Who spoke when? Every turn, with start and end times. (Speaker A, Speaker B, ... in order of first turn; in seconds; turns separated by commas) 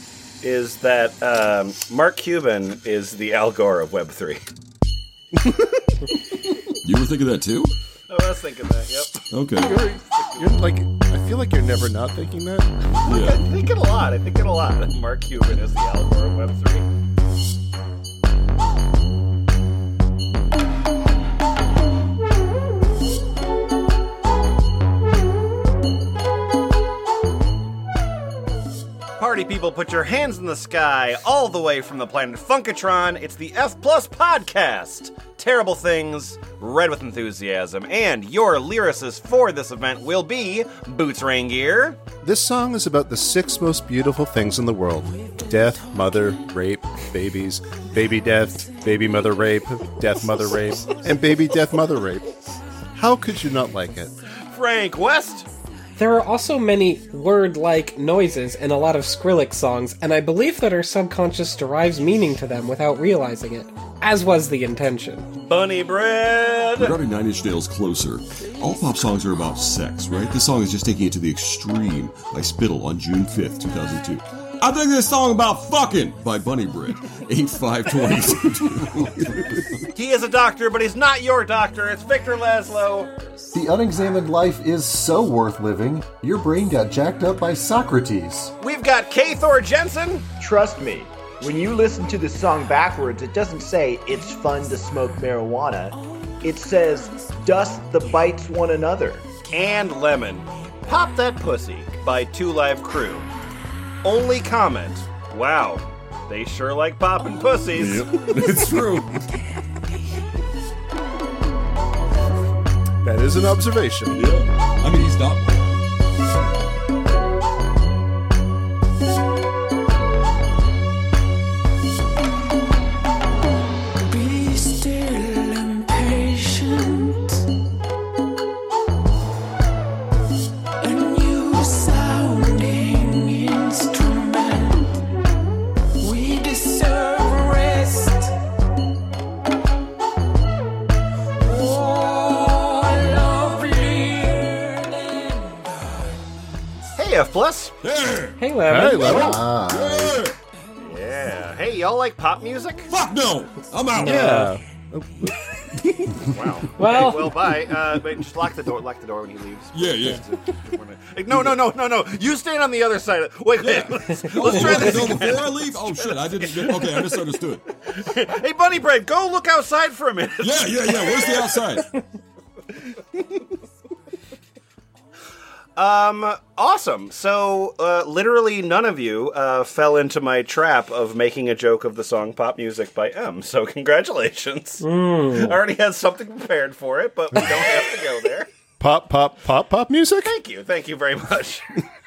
Speaker A: 0.4-4.4, Speaker B: 6.8-7.7, Speaker A: 8.1-9.2, Speaker B: 9.3-9.8, Speaker C: 9.6-12.7, Speaker A: 13.0-16.9, Speaker B: 13.1-13.4, Speaker A: 29.2-42.0, Speaker C: 42.2-52.3, Speaker C: 53.0-54.1, Speaker A: 54.5-55.5, Speaker D: 56.0-65.3, Speaker A: 65.4-67.0, Speaker B: 66.8-79.7, Speaker A: 79.9-83.1, Speaker E: 83.5-88.5, Speaker A: 88.6-90.3, Speaker F: 90.4-99.3, Speaker A: 99.4-103.3, Speaker A: 104.0-108.1, Speaker B: 107.8-109.3, Speaker C: 113.0-114.3, Speaker B: 114.1-115.7, Speaker G: 125.0-126.3, Speaker D: 126.3-126.9, Speaker G: 130.8-133.1, Speaker D: 133.1-134.1, Speaker G: 134.2-134.8, Speaker G: 136.0-136.3, Speaker D: 136.3-137.7, Speaker D: 142.8-144.1, Speaker G: 143.3-143.7, Speaker A: 147.0-147.8, Speaker B: 147.8-148.4, Speaker D: 148.4-149.4, Speaker C: 148.7-149.4, Speaker E: 149.0-150.3, Speaker B: 149.6-150.4, Speaker A: 150.8-152.9, Speaker B: 152.9-154.5, Speaker C: 154.0-155.3, Speaker D: 154.1-154.5, Speaker A: 156.2-167.1, Speaker D: 156.8-157.4, Speaker B: 159.7-160.2, Speaker B: 163.6-167.6, Speaker A: 167.9-171.6, Speaker B: 170.4-171.9, Speaker A: 175.8-188.5, Speaker D: 184.8-185.6, Speaker C: 188.8-190.3, Speaker A: 190.2-191.7